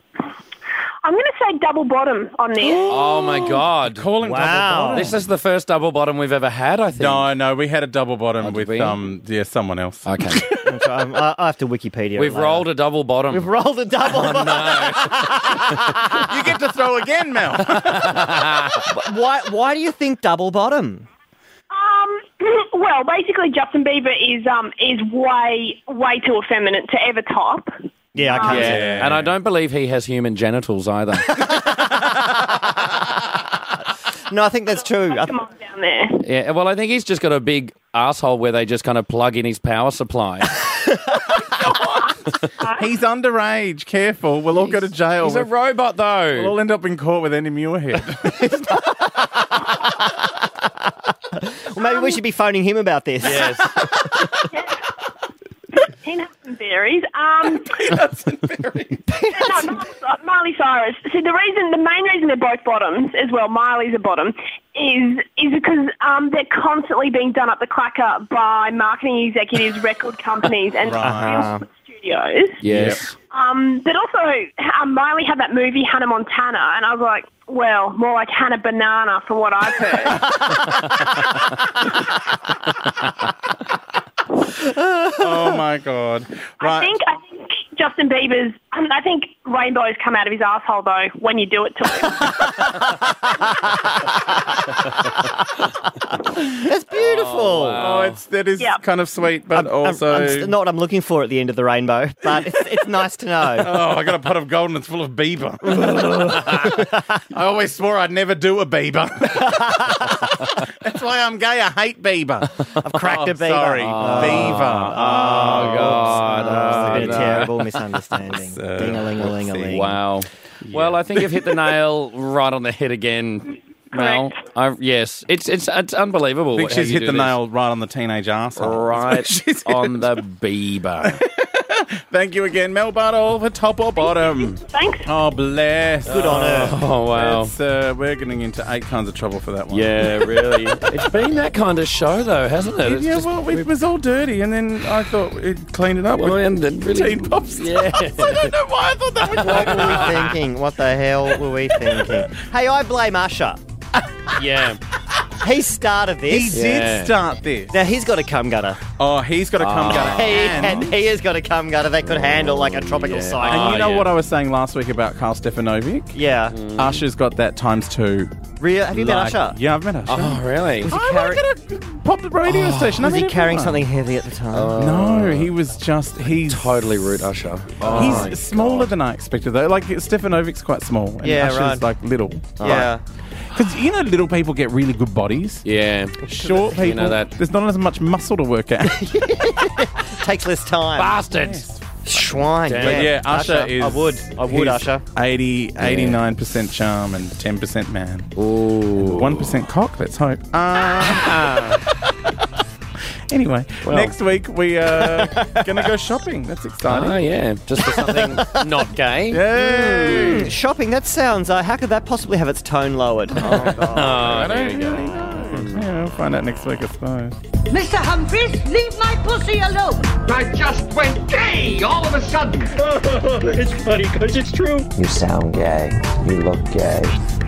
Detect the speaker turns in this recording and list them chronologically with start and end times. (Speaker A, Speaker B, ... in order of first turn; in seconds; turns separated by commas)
Speaker A: 1.0-2.9, Speaker B: 2.6-5.2, Speaker C: 2.9-4.1, Speaker D: 4.2-5.2, Speaker C: 4.9-7.3, Speaker B: 7.0-10.8, Speaker C: 8.4-9.0, Speaker C: 10.1-10.5, Speaker D: 10.6-12.7, Speaker C: 12.2-13.5, Speaker D: 13.3-16.3, Speaker C: 14.0-15.9, Speaker B: 16.1-18.8, Speaker C: 17.7-18.9, Speaker D: 18.9-21.1, Speaker A: 21.7-27.7, Speaker D: 28.1-29.0, Speaker B: 28.3-29.3, Speaker A: 28.4-28.9, Speaker C: 28.4-31.4, Speaker D: 31.5-32.6, Speaker D: 34.3-35.4, Speaker A: 35.1-36.2, Speaker C: 36.2-40.5, Speaker D: 40.7-41.4, Speaker A: 42.6-42.9, Speaker B: 42.7-45.5, Speaker C: 44.6-46.5, Speaker B: 46.3-48.7, Speaker D: 48.3-50.3, Speaker D: 51.3-54.5, Speaker C: 53.2-53.8, Speaker A: 54.5-54.8, Speaker A: 55.8-57.8, Speaker B: 57.4-59.0, Speaker D: 59.1-59.9, Speaker A: 59.3-72.7, Speaker B: 70.8-71.5, Speaker D: 71.0-71.6, Speaker C: 72.6-73.1, Speaker B: 72.7-73.0, Speaker A: 73.3-80.4, Speaker D: 84.6-85.5, Speaker B: 85.2-86.9, Speaker A: 86.6-92.6, Speaker D: 92.8-95.2, Speaker D: 96.2-97.8, Speaker C: 96.9-98.2, Speaker B: 97.8-100.5, Speaker D: 99.5-103.7, Speaker B: 103.5-117.7, Speaker D: 105.7-107.0, Speaker D: 109.4-110.3, Speaker D: 112.8-119.9, Speaker C: 113.8-117.5, Speaker B: 118.2-120.0, Speaker C: 119.7-127.4, Speaker B: 120.7-121.5, Speaker A: 123.9-124.3, Speaker B: 126.5-130.2, Speaker C: 128.6-131.2, Speaker B: 131.0-140.5, Speaker A: 134.7-135.1, Speaker D: 136.1-136.8, Speaker C: 136.1-137.5, Speaker C: 139.7-143.7, Speaker B: 142.8-150.4, Speaker C: 146.2-148.5, Speaker C: 149.2-150.2, Speaker D: 149.3-153.6, Speaker C: 154.3-154.8, Speaker D: 155.4-156.6, Speaker B: 156.2-157.7, Speaker C: 156.5-157.1, Speaker D: 157.7-158.8, Speaker B: 159.0-160.9, Speaker C: 159.6-160.9, Speaker D: 159.9-163.9, Speaker C: 162.0-164.1, Speaker B: 163.4-166.2, Speaker D: 166.1-166.6, Speaker C: 166.5-167.1, Speaker B: 166.7-168.3, Speaker D: 168.6-169.6, Speaker B: 168.9-173.9, Speaker C: 170.1-170.9, Speaker D: 170.8-171.4, Speaker C: 172.4-173.0, Speaker D: 172.9-174.7, Speaker C: 174.5-175.5, Speaker B: 174.7-182.9, Speaker C: 176.4-178.9, Speaker D: 177.9-178.3, Speaker D: 181.2-181.8, Speaker D: 182.6-183.0, Speaker C: 182.6-182.9, Speaker B: 183.5-185.6, Speaker C: 185.6-187.3, Speaker B: 186.2-189.1, Speaker D: 188.8-191.2, Speaker C: 190.9-191.7, Speaker B: 191.3-198.3, Speaker D: 192.1-195.0, Speaker C: 192.7-193.1, Speaker C: 195.8-196.2, Speaker C: 198.3-199.6, Speaker B: 198.9-201.7, Speaker C: 201.0-201.8, Speaker B: 203.3-207.2, Speaker C: 203.8-204.1, Speaker D: 205.0-205.7, Speaker C: 206.9-210.5, Speaker D: 207.8-208.9, Speaker B: 209.3-210.5, Speaker D: 209.9-214.4, Speaker B: 213.3-217.4, Speaker C: 213.4-215.8, Speaker E: 217.7-220.2, Speaker F: 220.2-224.9, Speaker G: 224.9-227.2